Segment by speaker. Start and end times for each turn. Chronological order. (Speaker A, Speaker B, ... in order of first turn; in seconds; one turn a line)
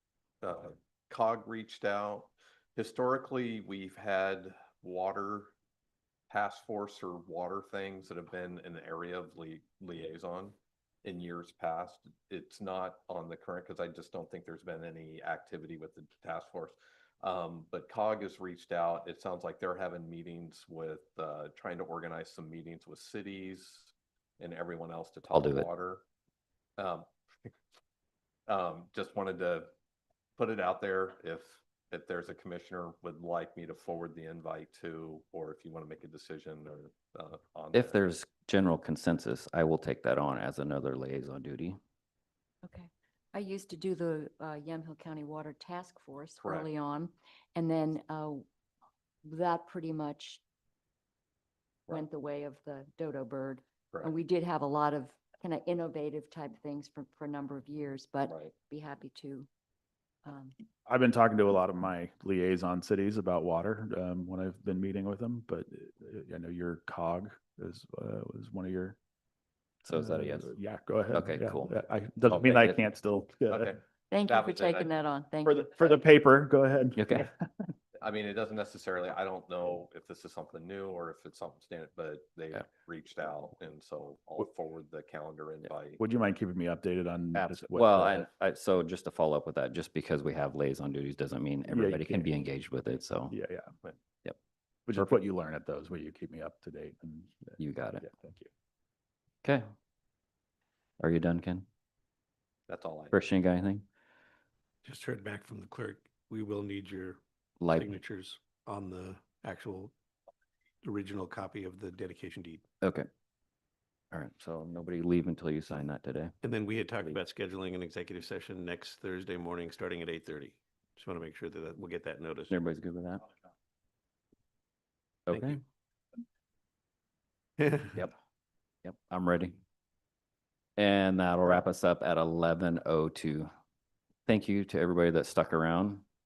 Speaker A: 0.4-5.5
Speaker A: 6.3-26.0
Speaker B: 25.3-25.7
Speaker A: 26.8-27.5
Speaker A: 28.5-29.7
Speaker A: 30.4-38.0
Speaker B: 37.7-41.8
Speaker C: 42.6-48.5
Speaker A: 46.4-46.7
Speaker C: 49.2-50.4
Speaker C: 51.9-59.5
Speaker A: 58.3-58.5
Speaker C: 60.2-60.6
Speaker D: 60.9-69.0
Speaker B: 69.8-70.5
Speaker D: 69.9-73.7
Speaker B: 71.1-71.7
Speaker B: 72.3-72.8
Speaker A: 73.5-74.9
Speaker C: 74.1-76.0
Speaker D: 75.5-77.7
Speaker B: 77.0-77.3
Speaker A: 78.0-86.0
Speaker D: 86.0-88.3
Speaker B: 87.3-93.3
Speaker D: 91.7-92.3
Speaker D: 93.3-93.7
Speaker D: 94.9-98.5
Speaker B: 97.6-98.0
Speaker B: 101.0-101.7
Speaker A: 102.7-103.2
Speaker B: 103.1-103.9
Speaker E: 104.8-107.2
Speaker B: 107.6-108.0
Speaker E: 107.7-109.9
Speaker E: 110.8-112.6
Speaker B: 112.8-113.1
Speaker B: 114.1-116.3
Speaker E: 116.4-122.5
Speaker B: 122.5-123.3
Speaker B: 125.3-125.6
Speaker E: 125.3-125.6
Speaker E: 127.6-127.9
Speaker B: 128.8-129.6
Speaker B: 130.8-133.5
Speaker B: 134.3-136.0